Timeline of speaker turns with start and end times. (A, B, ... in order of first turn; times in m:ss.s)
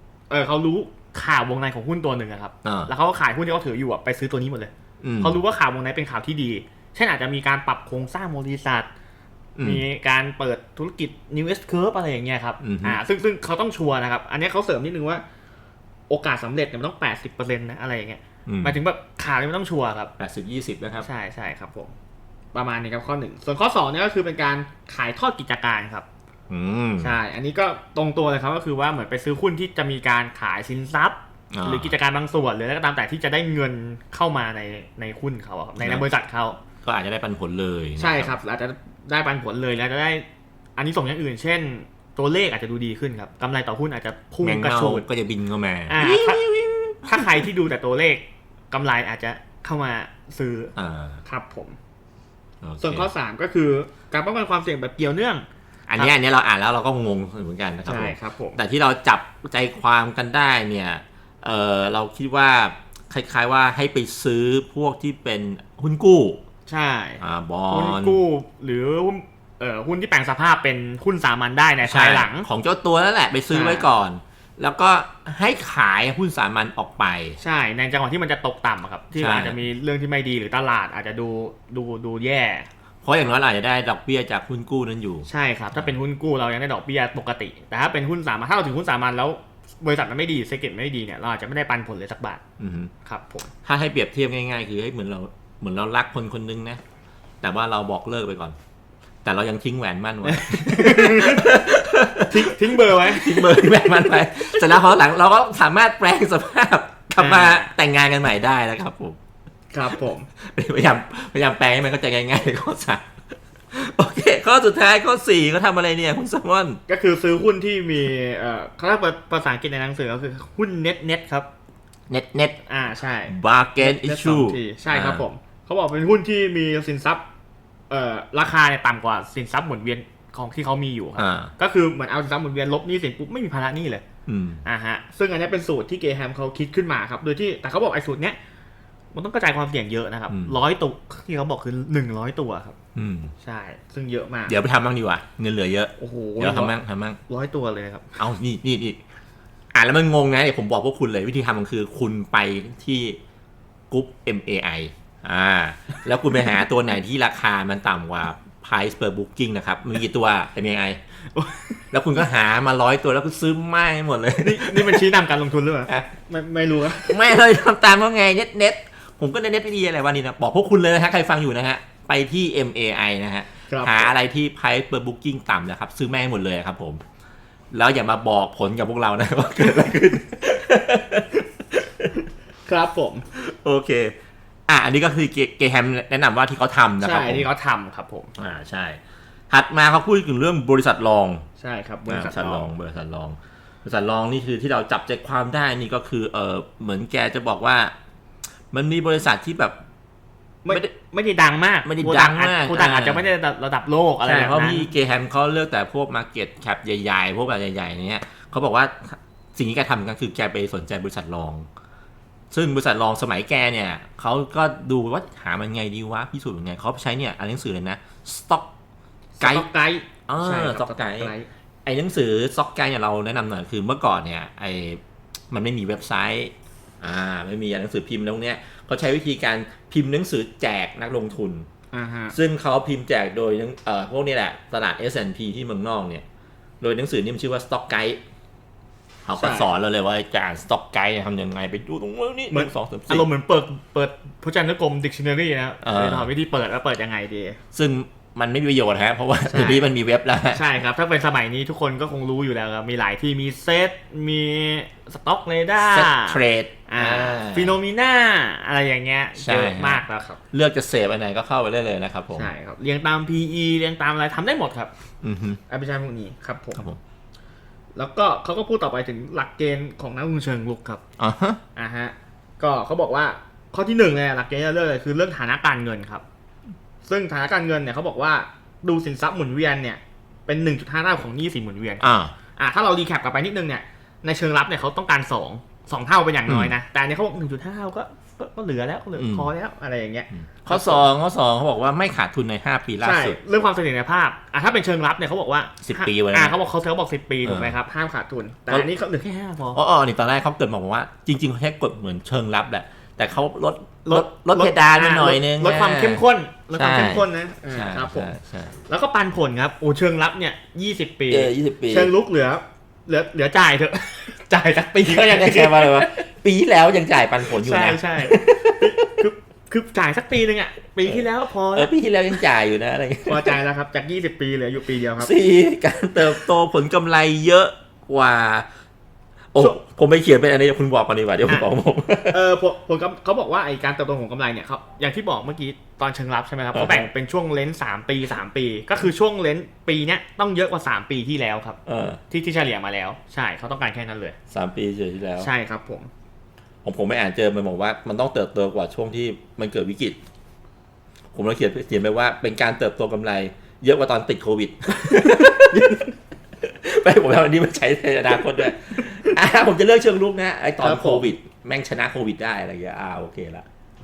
0:00.3-0:08.9 A
0:02.6-0:02.9 B
0:05.0-0:05.4 B
0:09.6-0:09.8 B
0:09.6-0:15.2 A
0:12.6-0:13.0 B
0:16.1-0:20.1 A
0:18.5-0:18.8 B
0:20.2-0:21.1 B
0:21.0-0:21.9 A
0:22.5-0:26.0 A
0:26.5-0:27.2 B
0:27.0-0:36.6 A
0:31.5-0:31.9 B
0:35.8-0:36.0 B
0:36.8-0:38.4 B
0:38.0-0:40.2 A
0:40.8-0:45.0 A
0:44.4-0:47.5 B
0:45.9-0:46.4 A
0:47.0-0:50.7 A
0:50.8-0:51.2 B
0:51.2-0:51.8 A
0:52.6-0:53.1 B
0:52.8-0:55.4 A
0:55.9-1:06.4 B
0:57.8-0:58.6 A
1:06.7-1:12.5 A
1:07.2-1:08.2 B
1:11.8-1:17.4 B
1:13.5-1:13.9 A
1:17.4-1:22.7 A
1:19.2-1:19.6 B
1:23.0-1:25.9 B
1:25.3-1:32.4 A
1:32.6-1:32.9 B
1:33.0-1:33.5 A
1:33.6-1:36.8 B
1:37.4-1:38.6 B
1:39.2-1:49.2 B
1:40.2-1:41.5 A
1:42.3-1:43.9 A
1:47.2-1:47.7 A
1:49.7-1:50.3 A
1:50.4-1:53.0 B
1:53.7-1:56.8 B
1:56.9-2:01.5 A
2:02.1-2:02.6 B
2:02.7-2:07.2 A
2:03.3-2:05.2 B
2:07.9-2:14.0 A
2:11.2-2:11.5 B
2:14.2-2:14.6 B
2:14.6-2:18.4 A
2:19.1-2:22.7 A
2:20.3-2:20.6 B
2:22.9-2:23.3 B
2:23.4-2:24.6 A
2:24.5-2:27.2 B
2:26.0-2:26.7 A
2:27.3-2:28.2 A
2:28.2-2:29.0 B
2:29.7-2:33.2 B
2:33.9-2:41.0 B
2:41.3-2:41.8 A
2:41.9-2:45.0 B
2:44.4-2:47.2 A
2:46.9-2:57.0 B
2:53.7-2:54.1 A
2:57.7-3:02.1 B
3:02.6-3:03.2 A
3:03.3-3:04.1 B
3:04.7-3:07.5 B
3:07.0-3:08.3 A
3:08.4-3:09.0 B
3:09.5-3:11.4 B
3:11.6-3:12.7 A
3:12.1-3:17.9 B
3:18.7-3:19.8 B
3:20.6-3:24.9 A
3:21.8-3:23.2 B
3:24.2-3:31.7 B
3:32.5-3:38.7 B
3:39.4-3:41.5 A
3:39.4-3:39.7 B
3:40.3-3:41.3 B
3:41.8-3:45.0 B
3:45.5-3:51.7 B
3:51.9-3:52.3 A
3:52.3-3:56.2 B
3:56.8-3:58.2 B
3:59.2-4:03.3 B
3:59.4-3:59.7 A
4:02.5-4:07.6 A
4:05.8-4:06.3 B
4:07.7-4:10.6 B
4:09.5-4:09.8 A
4:10.5-4:20.4 A
4:15.8-4:17.7 B
4:19.4-4:22.5 B
4:22.4-4:24.9 A
4:25.2-4:25.6 B
4:25.7-4:26.8 A
4:26.7-4:27.0 B
4:28.0-4:31.0 A
4:31.2-4:31.6 B
4:31.8-4:36.2 A
4:37.0-4:42.0 A
4:42.0-4:42.3 B
4:42.6-4:51.1 A
4:46.5-4:46.7 B
4:49.2-4:49.5 B
4:50.3-4:53.4 B
4:53.0-4:59.8 A
4:55.8-4:56.5 B
4:57.4-4:57.8 B
4:59.7-5:06.2 B
5:04.0-5:08.3 A
5:06.7-5:08.8 B
5:08.9-5:16.0 A
5:11.3-5:12.1 B
5:15.0-5:19.2 B
5:17.5-5:21.9 A
5:21.0-5:23.6 B
5:23.2-5:25.3 A
5:25.2-5:28.6 B
5:29.5-5:32.4 B
5:32.3-5:41.8 A
5:36.7-5:37.1 B
5:41.8-5:42.2 B
5:42.3-5:44.4 A
5:44.5-5:45.5 B
5:45.4-5:46.1 A
5:46.8-5:50.2 B
5:51.3-5:56.1 B
5:55.7-5:56.0 A
5:56.6-6:03.6 B
6:00.8-6:01.3 A